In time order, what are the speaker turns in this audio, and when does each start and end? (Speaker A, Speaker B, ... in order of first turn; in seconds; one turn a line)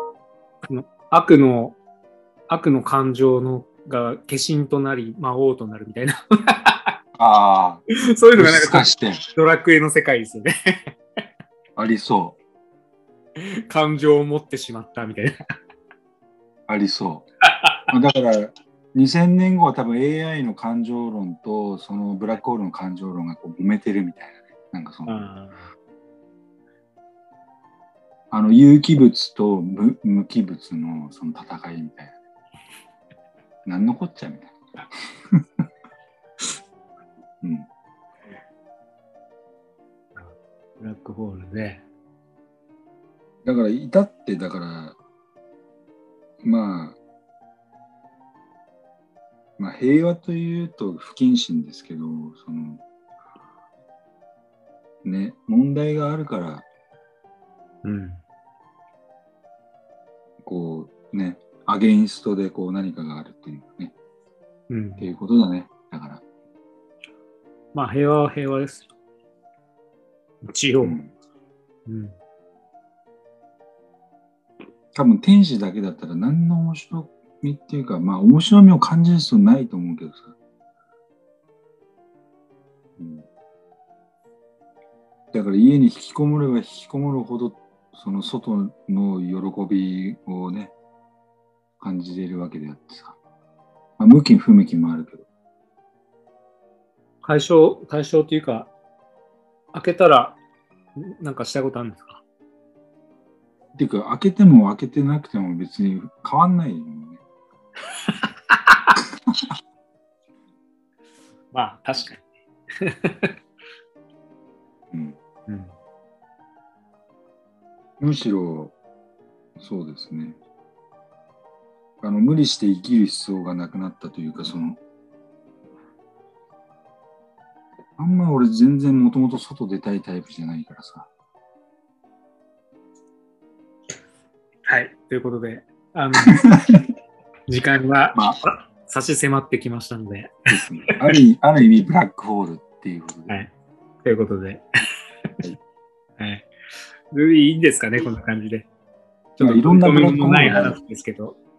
Speaker A: 0.7-1.8
Speaker A: 2.5-7.0
Speaker B: 7.2-7.8
Speaker A: 8.0-10.7
Speaker B: 8.3-9.2
Speaker B: 11.8-12.4
Speaker A: 13.3-15.4
Speaker B: 16.7-17.3
Speaker A: 17.5-17.9
Speaker B: 17.9-25.2
Speaker A: 25.1-25.7
Speaker B: 28.3-32.1
Speaker B: 33.6-34.6
Speaker B: 35.3-35.6
Speaker B: 37.4-37.7
Speaker A: 40.1-41.8
Speaker B: 43.4-45.0
Speaker B: 46.4-47.0
Speaker B: 49.6-52.8
Speaker B: 55.0-56.6
Speaker A: 57.8-58.2
Speaker B: 60.4-63.9
Speaker A: 64.7-65.1
Speaker B: 65.0-66.2
Speaker A: 67.7-68.9
Speaker A: 70.4-71.0
Speaker B: 70.8-71.1
Speaker A: 71.8-72.1
Speaker B: 74.9-80.3
Speaker B: 83.0-83.3
Speaker B: 85.3-90.7
Speaker B: 91.8-93.2
Speaker B: 94.0-95.2
Speaker A: 97.2-98.7
Speaker A: 99.7-100.4
Speaker A: 101.0-102.2
Speaker B: 103.7-107.2
Speaker A: 108.0-109.0
Speaker A: 111.5-113.3
Speaker B: 114.9-115.2
Speaker A: 115.5-115.7
Speaker B: 118.0-118.7
Speaker B: 119.6-120.4
Speaker B: 122.0-124.8
Speaker B: 128.0-131.1
Speaker A: 134.7-136.4
Speaker B: 136.3-136.8
Speaker A: 137.5-141.2
Speaker B: 140.5-143.4
Speaker A: 144.0-144.6
Speaker A: 146.2-146.5
Speaker A: 147.1-148.7
Speaker B: 149.4-150.8
Speaker A: 149.4-151.4